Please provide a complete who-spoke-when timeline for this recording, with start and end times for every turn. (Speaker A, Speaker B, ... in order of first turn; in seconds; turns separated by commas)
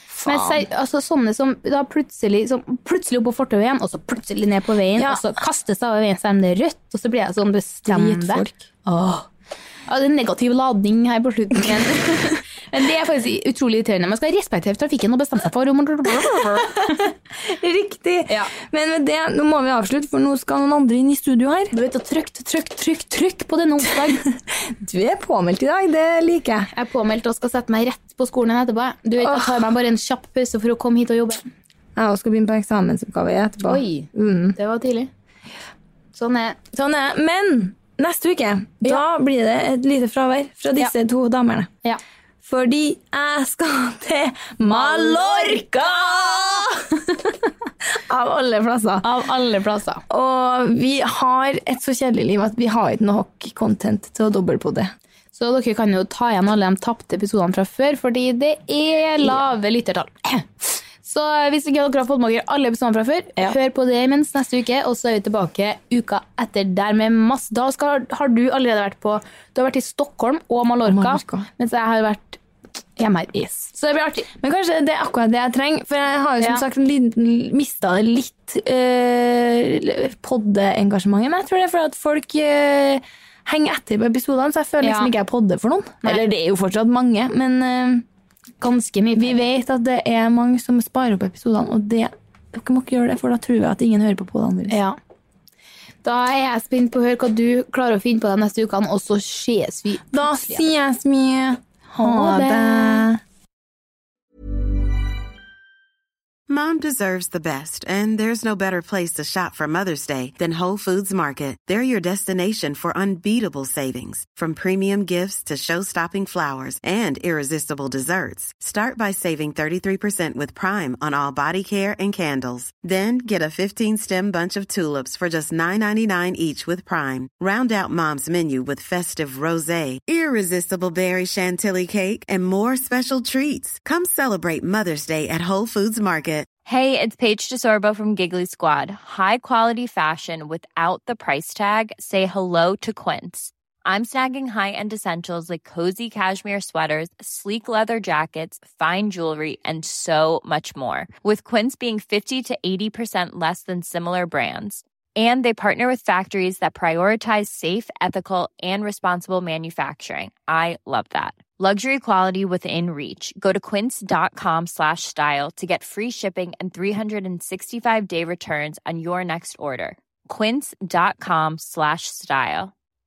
Speaker A: 0.2-0.6, Speaker B: 0.2-9.2, Speaker A: 5.0-5.3, Speaker A: 7.9-8.7, Speaker B: 9.9-17.1, Speaker A: 16.1-21.7, Speaker B: 21.7-24.2, Speaker A: 23.8-26.7, Speaker B: 26.7-31.4, Speaker A: 29.2-29.7, Speaker A: 32.0-34.6, Speaker B: 33.6-35.1, Speaker B: 36.1-36.6, Speaker A: 36.7-41.7, Speaker A: 42.4-47.0, Speaker B: 44.6-46.7, Speaker A: 47.9-49.2, Speaker B: 49.0-50.0, Speaker A: 50.1-54.9, Speaker B: 55.4-72.4, Speaker A: 70.9-71.5, Speaker B: 73.0-74.3, Speaker A: 73.3-73.7, Speaker A: 74.3-88.0, Speaker B: 84.8-85.1, Speaker B: 88.6-89.4, Speaker A: 89.2-94.8, Speaker B: 94.7-95.0, Speaker B: 96.0-100.6, Speaker A: 100.1-103.2, Speaker B: 102.0-103.1, Speaker C: 106.5-136.5, Speaker D: 136.7-172.7